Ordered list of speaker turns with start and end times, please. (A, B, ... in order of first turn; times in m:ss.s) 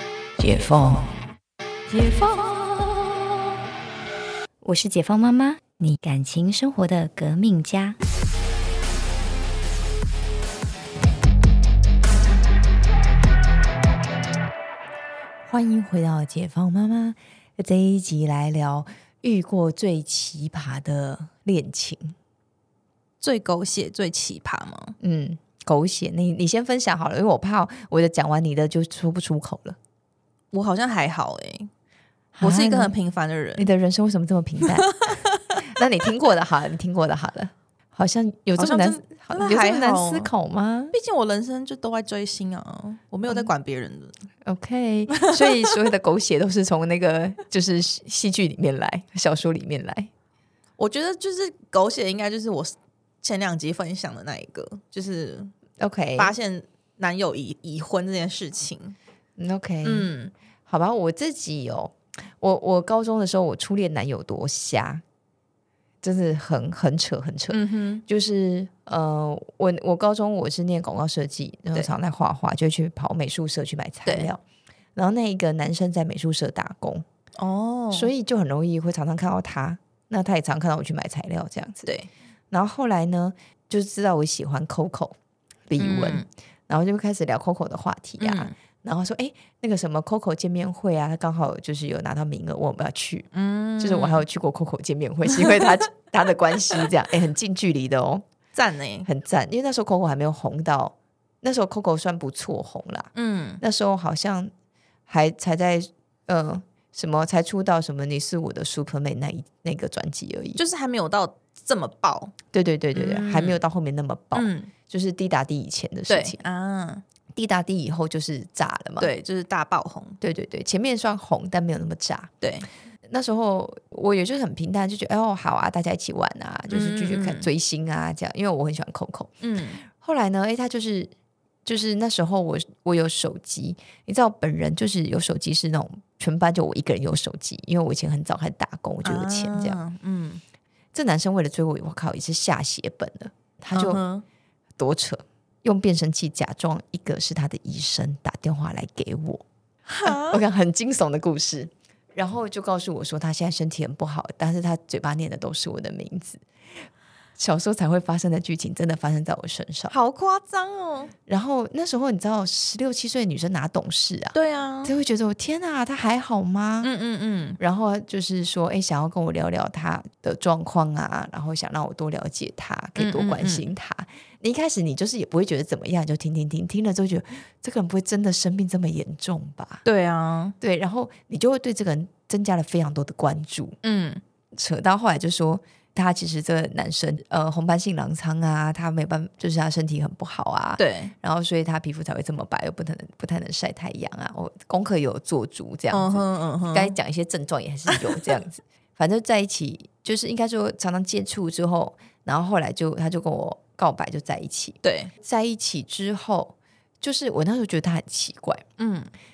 0:00.4-0:01.1 A
0:04.6-0:08.0 B
0:15.4-0:22.1 A
0:23.2-0:24.9 C
0:25.0-0:29.8 A
0:30.5-0:31.7 C
0:32.3-0:33.0 A
0:32.4-0:33.7 C
0:33.6-0:35.1 A
0:34.9-0:35.6 C
0:35.6-0:40.9 A
0:38.6-0:40.3 C
0:40.9-0:44.2 C
0:44.4-0:50.1 A
0:50.8-0:55.5 C
0:55.8-0:56.4 A
0:56.2-0:59.0 C
0:59.4-1:00.1 A
0:59.8-1:00.3 C
1:00.7-1:05.0 A
1:06.0-1:14.4 A
1:07.5-1:08.0 C
1:14.0-1:14.3 C
1:15.0-1:17.0 A
1:17.4-1:18.1 C
1:17.9-1:21.9 A
1:22.5-1:25.1 A
1:25.7-1:38.2 A
1:25.8-1:26.2 C
1:28.2-1:28.5 C
1:33.3-1:34.2 C
1:35.4-1:35.7 C
1:38.5-1:39.1 C
1:39.0-1:43.1 A
1:43.1-1:43.6 C
1:43.6-1:44.5 A
1:45.1-1:50.6 A
1:50.6-1:52.3 C
1:52.5-1:56.4 A
1:52.9-1:53.6 C
1:54.3-1:54.7 C
1:56.1-1:57.0 C
1:57.3-1:59.1 A
1:59.0-2:00.2 C
2:00.2-2:02.3 A
2:02.4-2:02.7 C
2:03.1-2:09.3 A
2:06.7-2:07.5 C
2:09.4-2:09.8 C
2:09.8-2:11.1 A
2:11.6-2:19.8 A
2:19.0-2:20.4 C
2:20.9-2:24.0 A
2:23.7-2:24.2 C
2:24.8-2:29.4 A
2:29.9-2:30.4 C
2:30.0-2:36.4 A
2:37.4-2:39.9 A
2:39.9-2:41.1 C
2:41.3-2:46.9 A
2:44.3-2:44.9 C
2:46.8-2:47.6 C
2:47.6-2:59.8 A
2:53.0-2:53.7 C
2:59.8-3:00.5 C
3:00.6-3:03.8 A
3:03.8-3:04.2 C
3:04.5-3:28.6 A
3:10.8-3:11.1 C
3:15.9-3:17.0 C
3:17.9-3:18.3 C
3:24.8-3:25.1 C
3:28.8-3:29.1 C